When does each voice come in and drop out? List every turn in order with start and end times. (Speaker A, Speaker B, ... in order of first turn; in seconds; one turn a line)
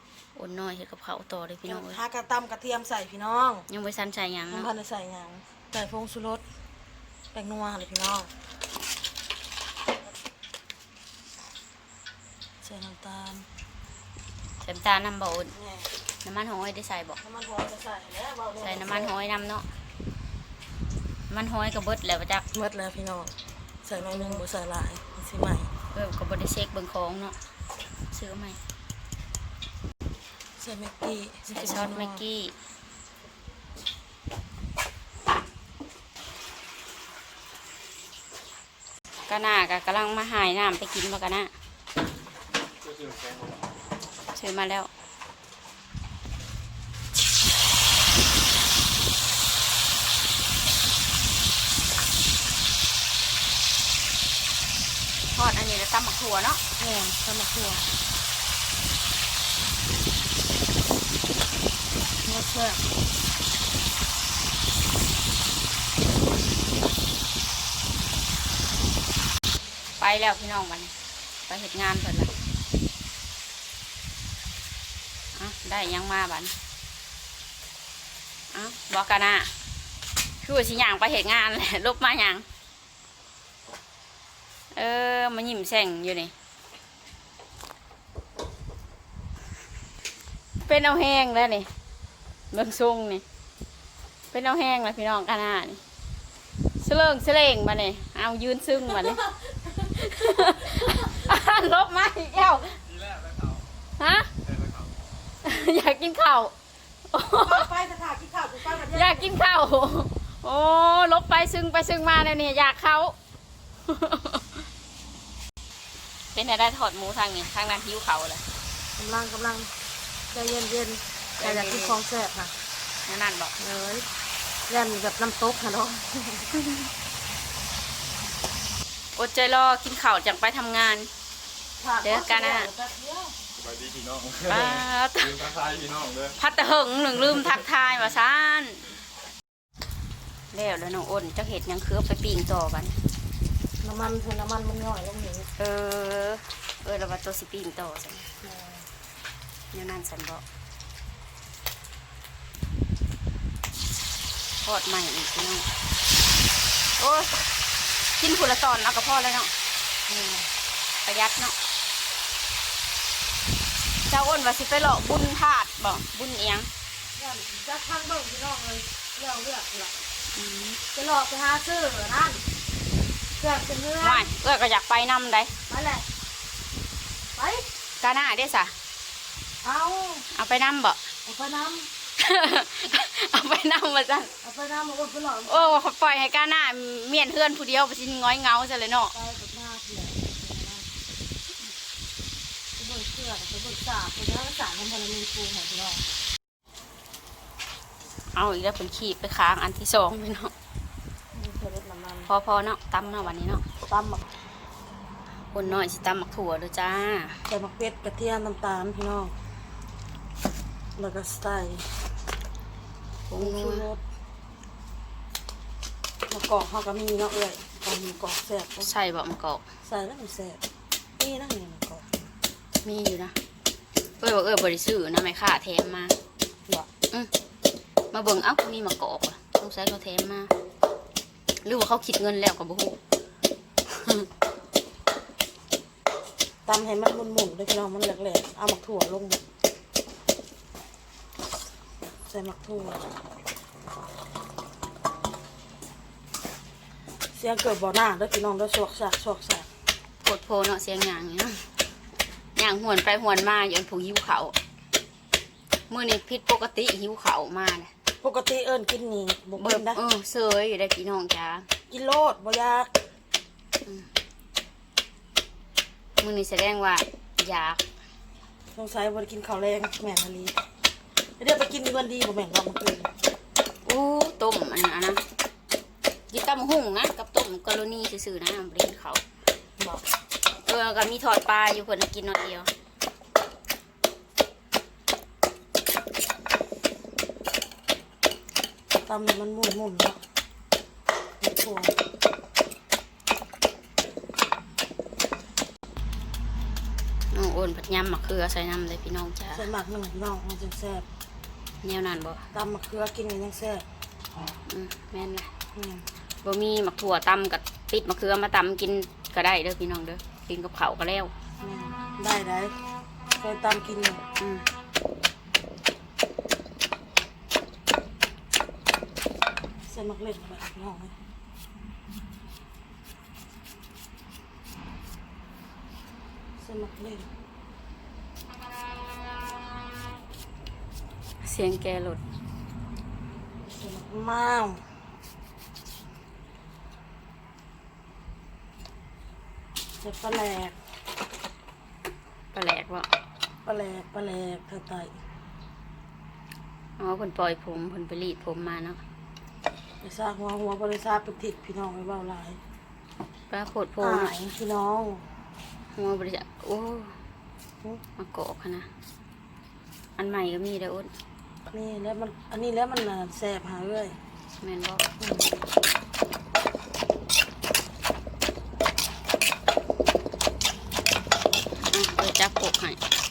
Speaker A: 0.3-2.0
Speaker B: 1.7-3.7
Speaker A: 3.7-4.7
Speaker B: 4.5-6.4
Speaker B: 7.3-8.3
Speaker B: 12.6-13.5
Speaker A: 14.6-15.5
Speaker B: 15.6-15.9
Speaker A: 16.2-17.2
Speaker B: 17.2-19.1
Speaker A: 18.6-19.7
Speaker A: 21.3-22.4
Speaker B: 22.5-23.3
Speaker B: 23.8-25.7
Speaker A: 24.0-24.4
Speaker A: 25.9-27.4
Speaker A: 28.1-28.6
Speaker B: 30.6-32.2
Speaker A: 31.5-32.5
Speaker A: 39.3-41.5
Speaker C: 42.9-43.5
Speaker A: 44.3-44.9
Speaker A: 55.3-56.6
Speaker B: 56.8-57.9
Speaker B: 62.2-62.8
Speaker A: 70.0-70.9
Speaker A: 71.5-72.3
Speaker A: 75.4-76.5
Speaker A: 78.5-79.5
Speaker A: 80.4-82.5
Speaker A: 84.7-86.3
Speaker A: 90.7-91.7
Speaker A: 92.5-93.2
Speaker A: 94.3-95.8
Speaker A: 96.8-102.8
Speaker A: 104.0-104.3
Speaker C: 104.5-104.9
Speaker A: 105.4-106.5
Speaker A: 107.1-107.7
Speaker B: 107.3-109.4
Speaker A: 108.8-113.2
Speaker A: 113.9-114.6
Speaker A: 116.3-118.4
Speaker B: 119.0-119.7
Speaker B: 120.3-122.5
Speaker A: 121.4-122.0
Speaker A: 123.0-123.5
Speaker B: 123.6-124.1
Speaker B: 124.7-126.5
Speaker A: 129.2-131.1
Speaker B: 131.8-133.3
Speaker A: 132.0-132.7
Speaker C: 133.6-136.4
Speaker A: 134.5-135.4
Speaker A: 136.4-138.8
Speaker A: 140.5-142.9
Speaker B: 143.8-145.5
Speaker A: 145.6-148.3
Speaker B: 148.4-148.8
Speaker A: 149.7-150.4
Speaker A: 154.6-155.7
Speaker A: 157.0-157.4
Speaker A: 158.2-159.5
Speaker B: 160.1-160.5
Speaker A: 161.1-161.6
Speaker A: 164.1-166.7
Speaker B: 167.2-169.9
Speaker A: 170.3-170.8
Speaker B: 170.9-172.4
Speaker B: 173.4-174.3
Speaker A: 174.0-175.5
Speaker B: 175.7-176.0
Speaker B: 177.4-177.7
Speaker A: 178.0-178.7
Speaker B: 179.6-180.3
Speaker A: 180.3-181.0
Speaker B: 181.2-181.9
Speaker A: 182.2-184.3
Speaker B: 184.4-185.8
Speaker A: 185.5-189.1
Speaker B: 189.1-190.9
Speaker B: 192.8-196.0
Speaker A: 198.3-200.5
Speaker B: 201.3-202.3
Speaker A: 202.3-203.6
Speaker B: 203.9-204.2
Speaker A: 205.5-207.4
Speaker B: 207.5-209.3
Speaker B: 211.0-211.9
Speaker A: 213.3-213.9
Speaker B: 213.4-214.0
Speaker B: 216.3-218.9
Speaker A: 218.8-219.6
Speaker B: 219.8-220.6
Speaker B: 221.2-222.2
Speaker A: 222.8-223.3
Speaker A: 224.2-226.2
Speaker A: 228.1-230.5
Speaker A: 231.6-233.0
Speaker A: 233.9-234.3
Speaker B: 236.7-239.4
Speaker B: 242.3-243.1
Speaker B: 247.3-249.7
Speaker A: 250.2-251.7
Speaker A: 252.6-254.6
Speaker A: 255.9-257.9
Speaker B: 258.2-260.0
Speaker A: 259.6-261.7
Speaker B: 261.9-262.9
Speaker A: 266.2-267.8
Speaker B: 268.7-270.7
Speaker B: 271.4-273.1
Speaker A: 273.9-275.2
Speaker A: 276.3-279.2
Speaker A: 280.7-282.7
Speaker B: 289.1-290.2
Speaker B: 291.4-291.9
Speaker A: 297.3-299.6
Speaker B: 299.5-301.1
Speaker A: 301.8-302.4
Speaker B: 302.5-303.9
Speaker A: 304.7-305.5
Speaker B: 305.8-306.1
Speaker A: 306.4-311.3
Speaker B: 311.6-312.8
Speaker B: 313.4-314.2
Speaker A: 314.4-314.7
Speaker B: 319.9-321.1
Speaker B: 326.6-327.3
Speaker A: 331.4-332.2
Speaker B: 333.6-334.8
Speaker B: 340.0-340.8
Speaker A: 342.5-343.1
Speaker B: 343.6-345.2
Speaker A: 347.0-349.0
Speaker B: 350.0-352.6
Speaker A: 353.5-354.4
Speaker B: 354.0-355.2
Speaker A: 355.9-357.1
Speaker A: 358.2-358.9
Speaker A: 360.2-361.1
Speaker B: 361.7-364.2
Speaker A: 364.6-365.0
Speaker B: 365.2-365.6
Speaker A: 371.9-373.0